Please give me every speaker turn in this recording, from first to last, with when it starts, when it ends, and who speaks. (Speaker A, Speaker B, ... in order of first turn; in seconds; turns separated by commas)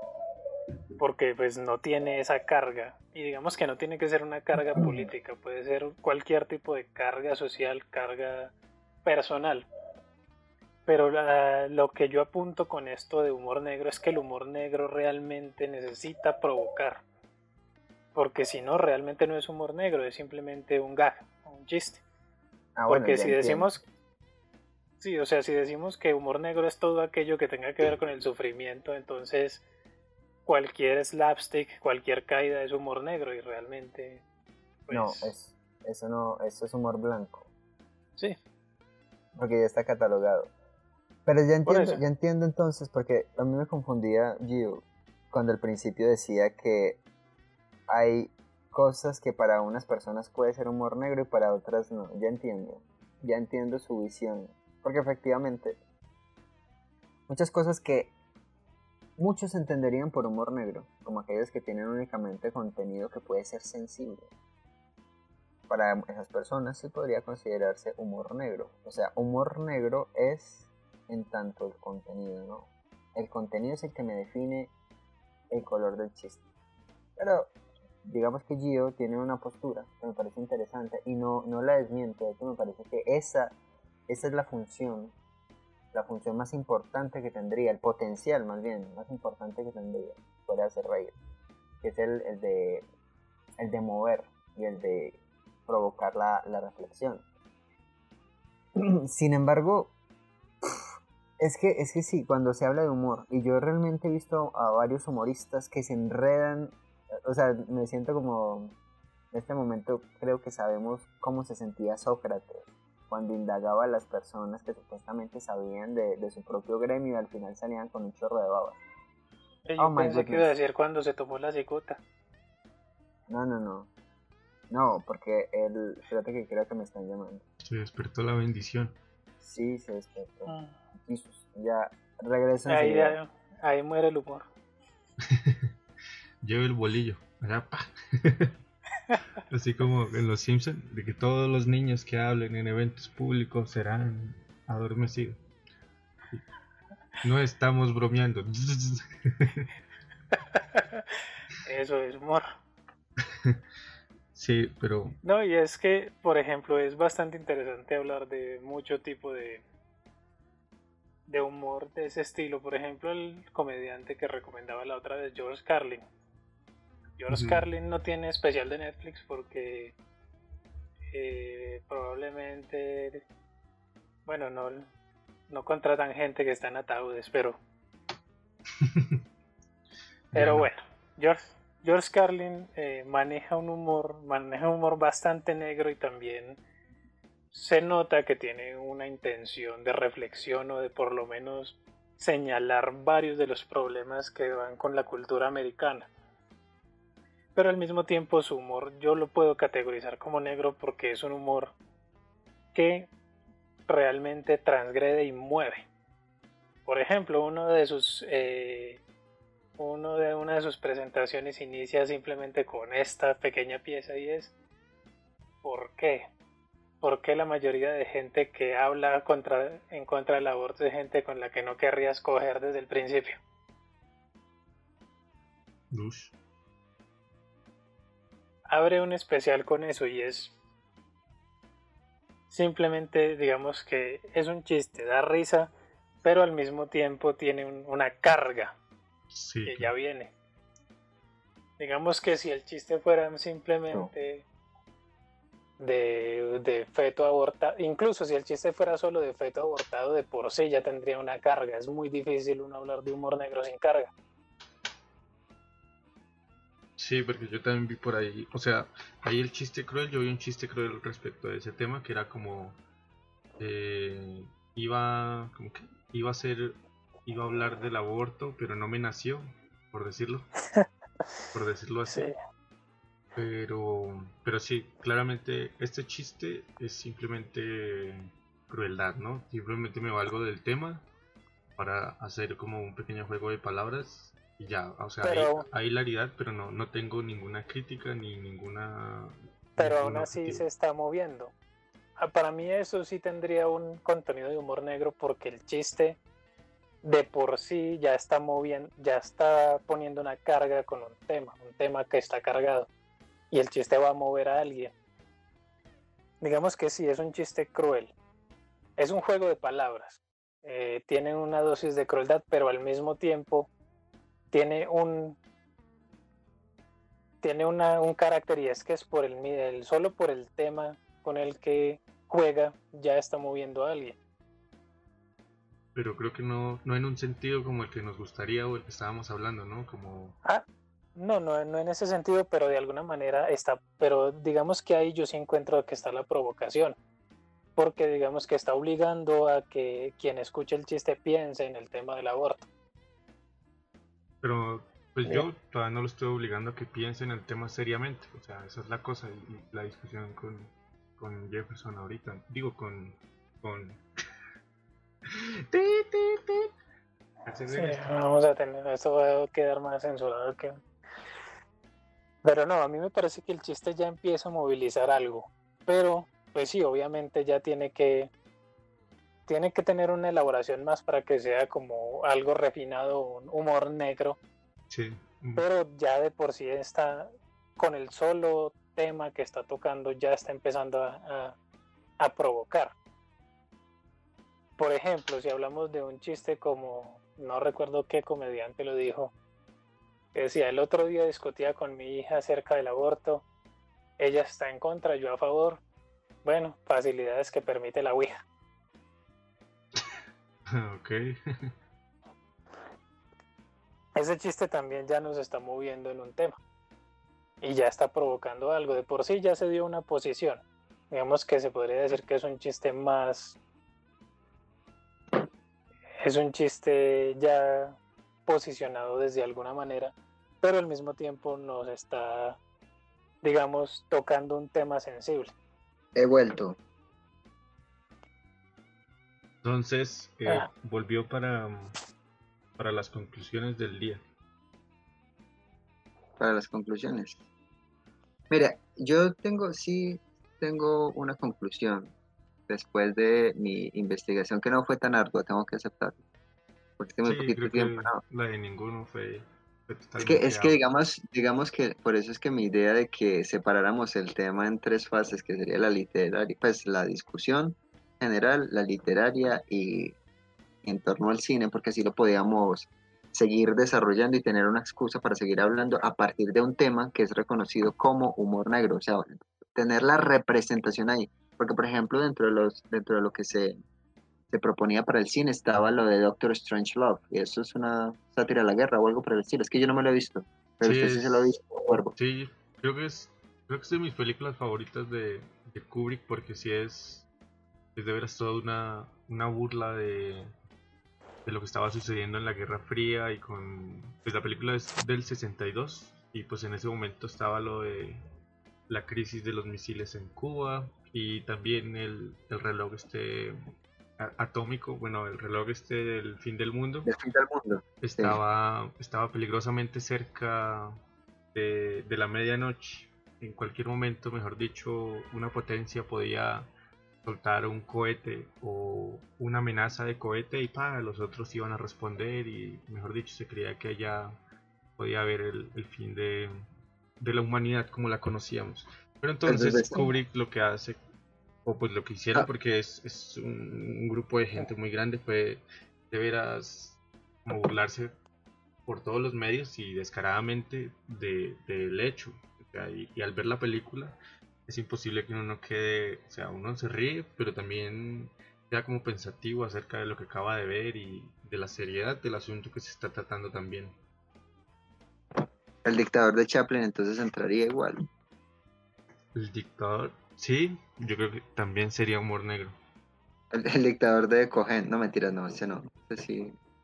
Speaker A: 1.0-9.7, Speaker A: 10.8-17.0, Speaker A: 18.1-22.0, Speaker B: 22.8-23.8, Speaker A: 22.9-23.8, Speaker A: 25.0-29.6, Speaker A: 30.4-34.2, Speaker A: 34.9-35.3, Speaker B: 34.9-37.5, Speaker B: 39.3-40.5, Speaker B: 41.2-47.0, Speaker A: 41.6-42.0, Speaker B: 47.9-55.8, Speaker B: 57.3-58.1, Speaker B: 59.2-64.3, Speaker B: 65.7-74.7, Speaker B: 75.5-76.4, Speaker B: 77.2-77.5, Speaker B: 78.0-83.5, Speaker B: 84.1-85.1, Speaker B: 85.9-91.2, Speaker B: 91.8-92.8, Speaker B: 93.6-97.2, Speaker B: 98.8-99.9, Speaker B: 101.4-106.7, Speaker B: 107.2-108.8, Speaker B: 109.3-118.8, Speaker A: 119.7-122.0, Speaker B: 119.8-120.5, Speaker B: 123.3-123.9, Speaker B: 124.7-127.4, Speaker C: 127.6-128.9, Speaker B: 129.4-133.2, Speaker A: 130.5-130.8, Speaker A: 132.7-134.5, Speaker C: 135.3-135.7, Speaker C: 136.4-138.6, Speaker C: 139.5-145.4, Speaker C: 147.2-149.7, Speaker A: 150.5-151.0, Speaker A: 151.6-152.5, Speaker C: 154.3-155.2, Speaker A: 155.2-159.6, Speaker A: 161.3-166.0, Speaker A: 167.2-169.9, Speaker C: 167.3-167.7, Speaker A: 171.1-173.2, Speaker A: 174.2-174.9, Speaker A: 175.5-177.6, Speaker C: 178.8-179.2, Speaker C: 180.3-180.7, Speaker A: 180.3-186.6, Speaker A: 187.5-196.1, Speaker A: 197.5-201.7, Speaker A: 202.7-203.1, Speaker A: 203.9-205.9, Speaker A: 206.8-209.0, Speaker A: 209.8-214.5, Speaker A: 215.6-216.3, Speaker A: 217.0-223.4, Speaker C: 225.9-226.3, Speaker A: 228.7-230.5, Speaker A: 232.5-238.8, Speaker C: 239.3-239.9, Speaker A: 239.6-240.3, Speaker A: 241.8-244.4, Speaker A: 245.8-254.1, Speaker C: 257.0-262.8, Speaker C: 263.6-270.5, Speaker C: 271.5-272.3, Speaker A: 272.1-272.4, Speaker C: 273.4-281.1, Speaker C: 281.8-290.6, Speaker A: 285.2-285.6, Speaker A: 289.8-291.5, Speaker A: 292.2-296.2, Speaker A: 297.0-302.9, Speaker A: 303.5-304.9, Speaker A: 306.4-308.1, Speaker A: 309.0-313.7, Speaker A: 314.5-315.4, Speaker A: 317.4-324.2, Speaker C: 325.9-330.4, Speaker A: 331.1-336.9, Speaker A: 337.8-342.6, Speaker C: 344.4-354.0, Speaker C: 355.3-356.7, Speaker C: 357.4-358.1, Speaker A: 357.7-360.8, Speaker A: 362.4-368.3, Speaker A: 369.5-374.4, Speaker C: 374.9-375.6, Speaker A: 375.6-381.6, Speaker A: 382.2-382.9, Speaker A: 384.8-389.3, Speaker A: 390.3-393.4, Speaker A: 394.2-395.8, Speaker A: 396.4-398.4, Speaker C: 400.7-401.7, Speaker A: 404.1-406.6, Speaker A: 407.6-413.6, Speaker A: 416.2-422.6, Speaker A: 423.4-425.5, Speaker B: 426.1-426.8, Speaker C: 429.6-432.0, Speaker C: 432.8-434.2, Speaker B: 436.4-437.4, Speaker B: 438.5-442.1, Speaker B: 442.7-446.2, Speaker B: 447.0-448.2, Speaker C: 447.2-450.8, Speaker B: 450.2-460.1, Speaker B: 460.8-473.8, Speaker B: 474.5-482.1, Speaker C: 480.8-481.5, Speaker C: 482.1-487.3, Speaker C: 487.9-490.5, Speaker C: 491.4-498.2, Speaker C: 498.9-503.6, Speaker C: 504.2-507.1, Speaker B: 507.1-508.4, Speaker C: 508.0-511.0, Speaker C: 511.5-516.7, Speaker C: 517.2-524.4, Speaker C: 525.0-526.6, Speaker C: 527.2-531.0, Speaker B: 529.5-530.0, Speaker C: 531.6-538.1, Speaker C: 538.9-554.0, Speaker B: 555.8-558.0, Speaker C: 559.3-562.8, Speaker B: 563.5-566.6